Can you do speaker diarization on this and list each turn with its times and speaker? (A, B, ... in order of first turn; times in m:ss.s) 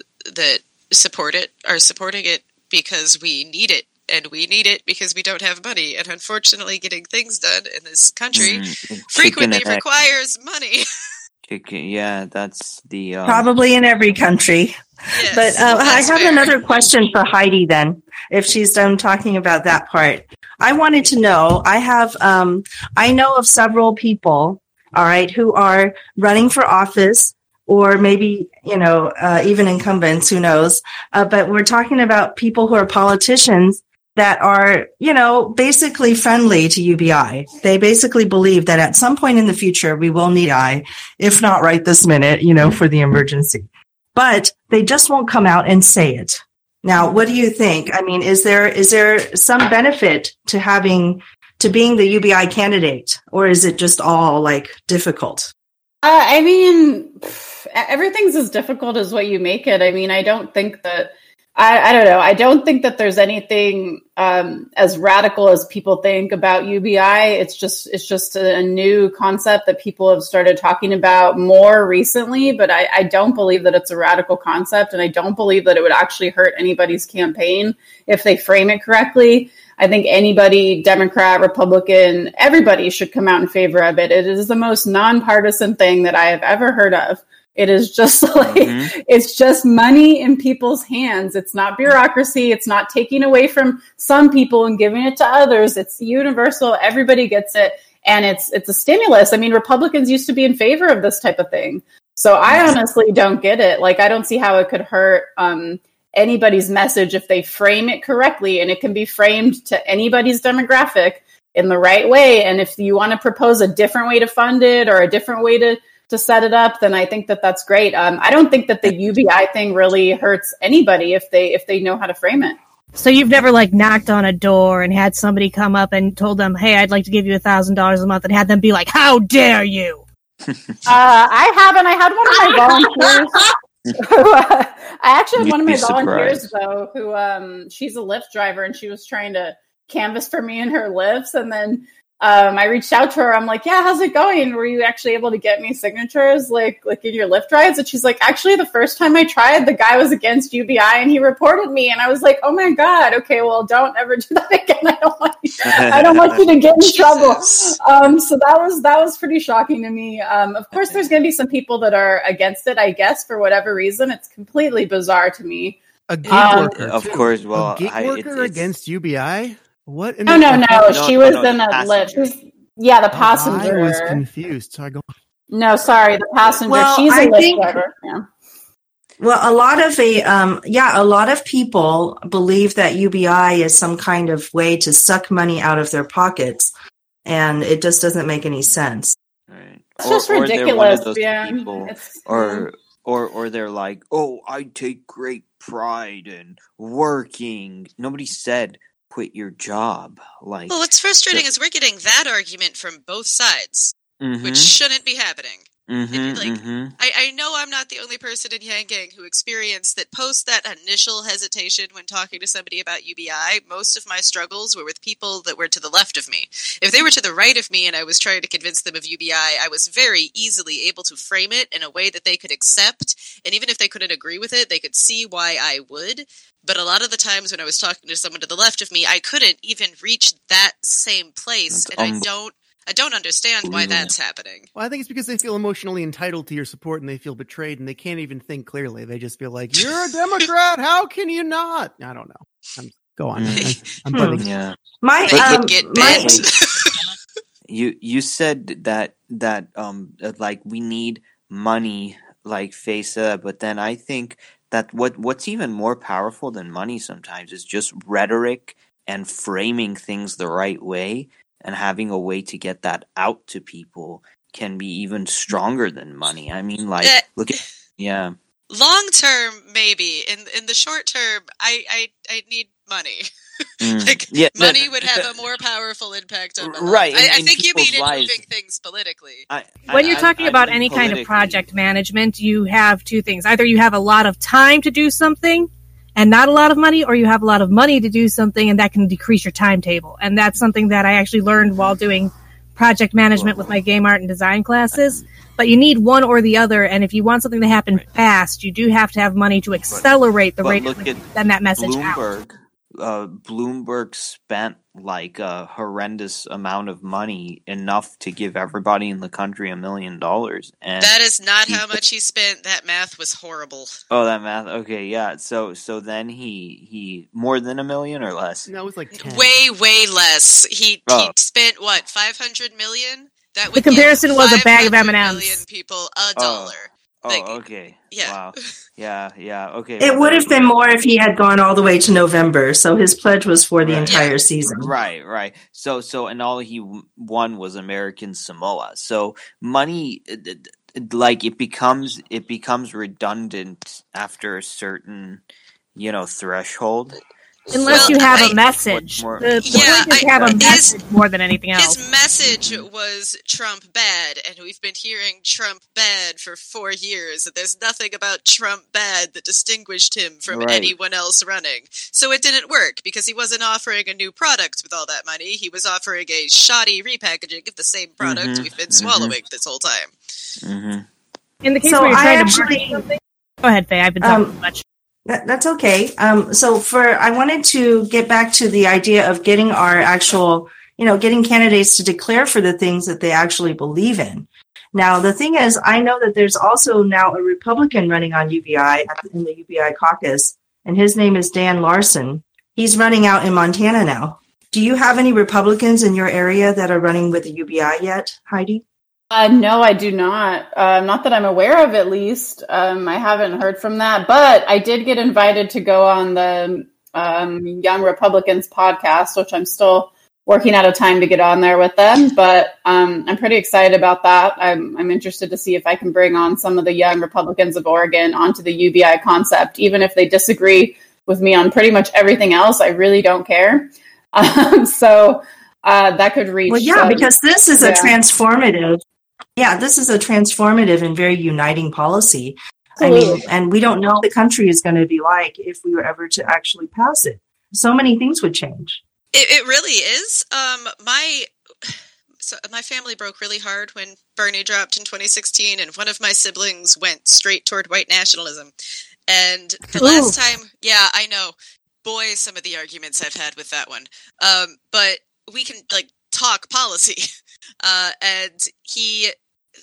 0:00.3-0:10.8 A
0:08.3-0:09.8 B
0:11.5-0:13.5 B
0:13.2-0:55.5 C
0:15.1-0:16.8 A
0:15.7-0:16.1 B
0:56.0-2:02.6 D
1:28.4-1:28.9 B
1:42.4-1:42.8 B
2:02.9-2:10.0 E
2:10.5-2:10.8 B
2:10.8-2:13.4 D
2:14.0-2:46.8 D
2:15.4-2:16.5 B
2:35.6-2:37.8 B
2:40.8-2:41.0 B
2:46.1-2:50.9 F
2:46.3-2:48.7 B
2:50.3-2:54.2 D
2:50.9-2:52.3 B
2:53.1-2:55.1 F
2:55.5-2:58.2 D
2:56.7-2:57.8 C
2:59.2-3:06.7 C
3:07.2-3:09.1 C
3:09.5-3:21.4 B
3:10.0-3:12.6 D
3:20.7-3:54.7 A
3:24.2-3:24.7 B
3:25.9-3:26.9 B
3:51.7-3:52.2 B
3:53.6-3:54.1 B
3:54.7-4:04.4 F
4:03.3-4:03.7 B
4:04.1-4:04.4 C
4:04.4-4:06.5 B
4:05.0-4:06.4 C
4:05.3-4:07.0 A
4:07.7-4:28.3 B
4:27.0-4:27.6 A
4:28.7-4:33.3 A
4:33.8-4:35.4 B
4:34.0-4:39.5 A
4:36.6-4:38.4 B
4:39.5-4:41.6 B
4:39.9-5:02.2 E
4:53.3-4:53.7 B
4:54.9-4:55.2 B
5:00.6-5:11.1 B
5:11.0-5:13.9 A
5:11.7-5:12.0 B
5:14.1-5:18.7 B
5:18.6-5:19.5 F
5:19.1-5:27.6 A
5:21.1-5:21.3 B
5:23.7-5:25.6 E
5:26.4-5:30.8 B
5:28.1-5:28.6 A
5:30.0-5:34.9 C
5:33.8-5:45.4 B
5:34.1-5:34.3 A
5:45.9-5:50.8 B
5:47.7-5:52.0 E
5:47.9-5:48.6 A
5:49.6-5:51.0 A
5:51.8-6:10.1 A
5:52.6-5:52.8 B
6:00.5-6:00.9 B
6:08.2-6:09.3 B
6:10.6-6:11.1 B
6:11.6-6:14.8 E
6:11.8-6:13.0 C
6:14.2-6:14.5 C
6:15.2-6:38.8 C
6:39.3-7:08.1 D
7:06.7-7:09.0 C
7:09.6-7:19.0 C
7:13.0-7:13.4 D
7:19.3-7:28.7 A
7:29.3-7:37.3 A
7:30.0-7:30.3 C
7:30.0-7:30.3 E
7:37.8-7:39.3 A